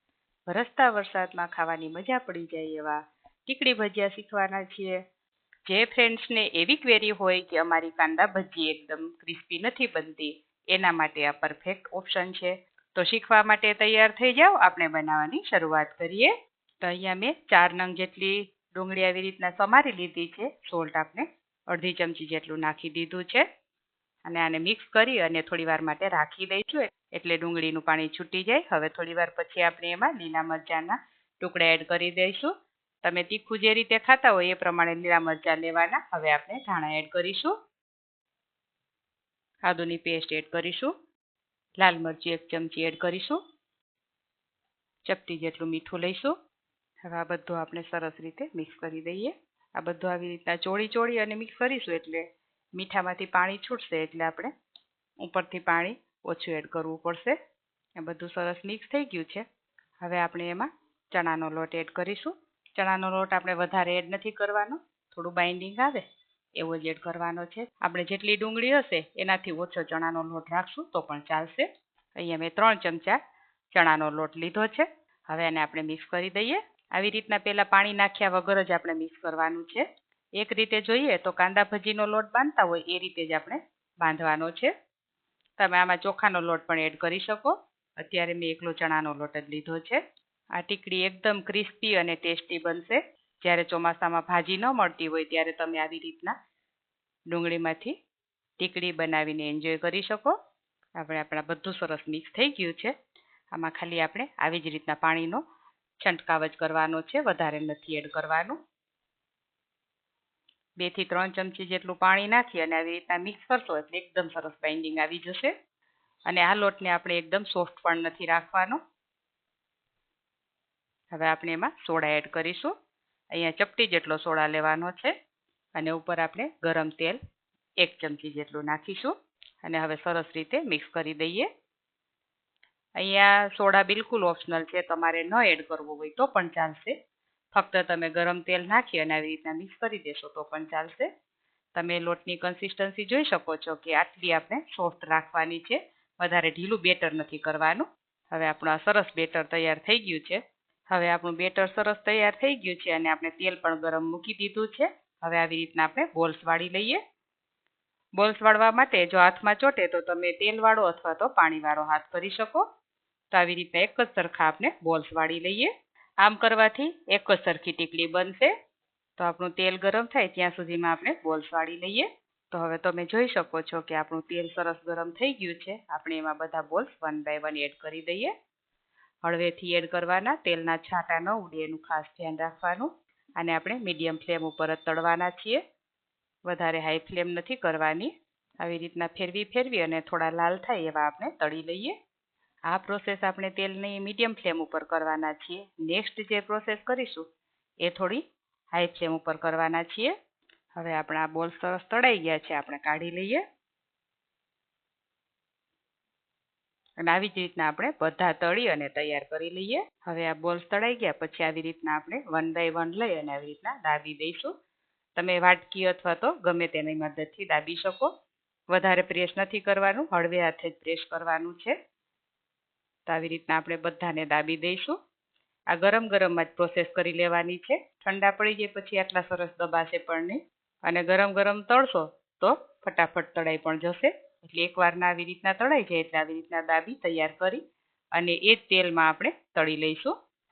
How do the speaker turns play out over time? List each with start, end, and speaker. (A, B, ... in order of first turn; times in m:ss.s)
0:00.5-0:05.0 A
0:05.7-0:23.4 A
0:24.3-0:32.5 A
0:33.0-0:37.5 A
0:39.7-0:40.9 A
0:41.8-0:43.4 A
0:45.0-0:46.3 A
0:47.1-0:54.5 A
0:55.2-0:57.4 A
0:58.0-0:59.4 A
1:00.0-1:06.0 A
1:06.6-1:11.7 A
1:12.2-1:13.2 A
1:13.7-1:19.8 A
1:20.4-1:24.7 A
1:25.6-1:30.0 A
1:30.6-1:36.3 A
1:37.3-1:37.9 A
1:38.6-1:40.3 A
1:41.0-1:42.9 A
1:43.5-1:45.4 A
1:46.0-1:48.6 A
1:50.8-1:55.5 A
1:56.3-1:58.8 A
2:01.1-2:02.7 A
2:03.3-2:05.1 A
2:05.8-2:07.2 A
2:07.8-2:11.5 A
2:13.0-2:17.0 A
2:17.5-2:21.1 A
2:21.8-2:37.0 A
2:38.2-2:42.6 A
2:43.3-2:48.5 A
2:49.2-2:58.3 A
2:59.2-3:05.6 A
3:06.5-3:11.9 A
3:12.7-3:17.2 A
3:17.8-3:18.2 A
3:18.7-3:20.1 A
3:20.8-3:23.4 A
3:27.0-3:34.5 A
3:35.2-3:38.1 A
3:38.7-3:41.8 A
3:43.1-3:45.0 A
3:45.7-3:57.6 A
3:58.1-4:00.1 A